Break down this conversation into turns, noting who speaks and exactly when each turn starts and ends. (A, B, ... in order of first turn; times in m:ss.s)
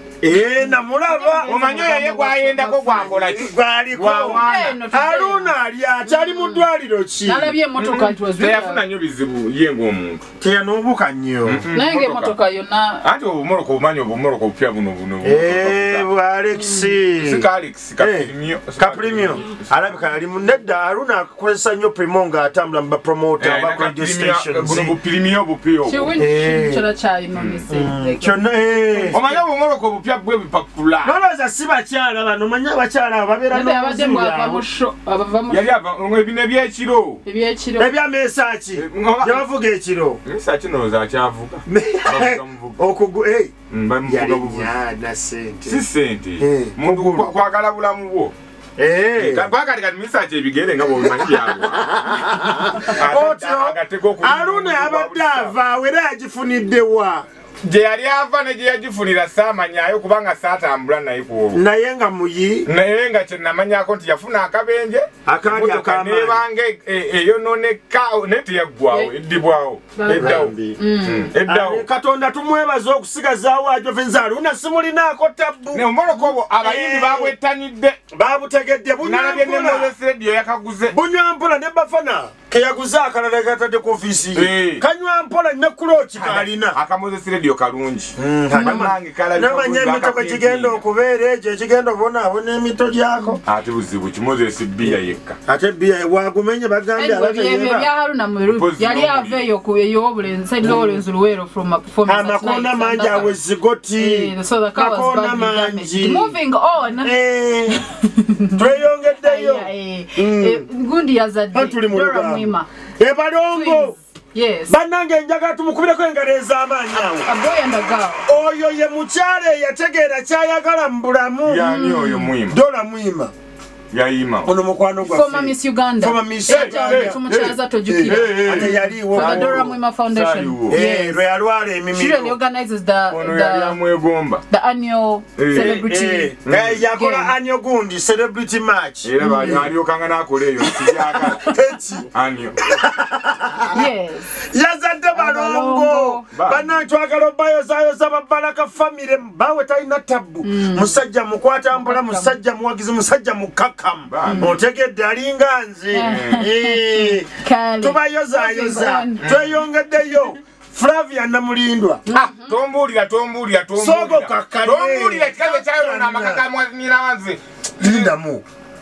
0:00.2-0:01.5 A
0:00.6-0:03.3 B
0:01.5-0:04.8 C
0:03.3-0:07.6 A
0:04.3-0:05.5 B
0:06.1-0:06.6 B
0:07.3-0:08.8 B
0:07.8-0:10.2 C
0:10.4-0:11.7 A
0:11.4-0:12.4 C
0:11.7-0:13.1 B
0:13.0-0:16.1 C
0:15.2-0:17.5 A
0:16.6-0:17.0 B
0:17.2-0:19.8 C
0:18.0-0:25.0 A
0:23.4-0:26.2 C
0:25.9-0:29.4 B
0:26.2-0:26.8 A
0:27.3-0:27.6 C
0:27.7-0:29.2 A
0:29.1-0:31.1 C
0:31.0-0:34.6 A
0:33.5-0:35.7 B
0:35.5-0:37.2 C
0:37.3-0:37.9 B
0:37.8-0:40.2 A
0:38.8-0:39.4 C
0:40.2-0:42.8 C
0:41.7-0:43.5 A
0:43.7-0:44.7 C
0:44.0-0:45.8 A
0:45.7-0:48.3 C
0:46.4-0:47.3 A
0:48.8-0:49.5 A
0:49.2-0:51.9 C
0:51.1-0:57.3 A
0:52.9-0:55.6 C
0:57.6-1:01.6 C
1:01.5-1:02.7 A
1:02.7-1:11.8 C
1:05.2-1:06.4 A
1:10.0-1:11.3 B
1:10.1-1:10.8 A
1:11.4-1:15.8 A
1:15.7-1:18.0 C
1:16.6-1:17.3 A
1:18.1-1:19.9 A
1:19.0-1:21.0 C
1:20.9-1:26.8 A
1:24.3-1:24.8 C
1:26.2-1:30.8 C
1:28.2-1:33.4 A
1:28.5-1:28.9 B
1:33.4-1:35.4 C
1:34.8-1:37.9 A
1:37.0-1:43.4 B
1:38.4-1:39.4 C
1:40.6-1:41.0 A
1:42.1-1:46.4 A
1:44.0-1:47.2 B
1:47.0-1:47.8 A
1:47.7-1:48.6 B
1:48.6-1:50.7 A
1:49.2-1:52.7 B
1:51.5-1:54.0 A
1:53.5-1:54.8 B
1:54.7-1:57.3 A
1:56.9-1:58.2 B
1:58.3-2:01.7 A
2:01.4-2:02.6 C
2:01.6-2:02.3 B
2:02.5-2:03.3 A
2:03.9-2:04.5 C
2:04.4-2:09.8 A
2:05.0-2:11.2 B
2:06.5-2:10.8 C
2:10.7-2:12.4 A
2:11.9-2:13.8 B
2:13.1-2:14.4 C
2:14.5-2:16.3 B
2:15.4-2:15.8 C
2:15.5-2:19.7 A
2:16.4-2:16.8 C
2:16.9-2:17.3 B
2:19.0-2:21.5 C
2:19.2-2:19.6 B
2:21.1-2:22.1 A
2:22.1-2:22.6 C
2:22.6-2:23.8 A
2:23.7-2:24.3 B
2:24.4-2:42.0 A
2:25.1-2:26.2 B
2:26.3-2:26.7 C
2:30.4-2:31.0 B
2:31.7-2:32.4 B
2:34.1-2:34.5 C
2:34.2-2:34.5 B
2:35.9-2:39.2 B
2:36.0-2:36.4 C
2:39.2-2:39.6 C
2:42.1-2:42.6 B
2:42.1-2:48.1 C
2:43.8-2:46.4 A
2:47.8-2:48.4 A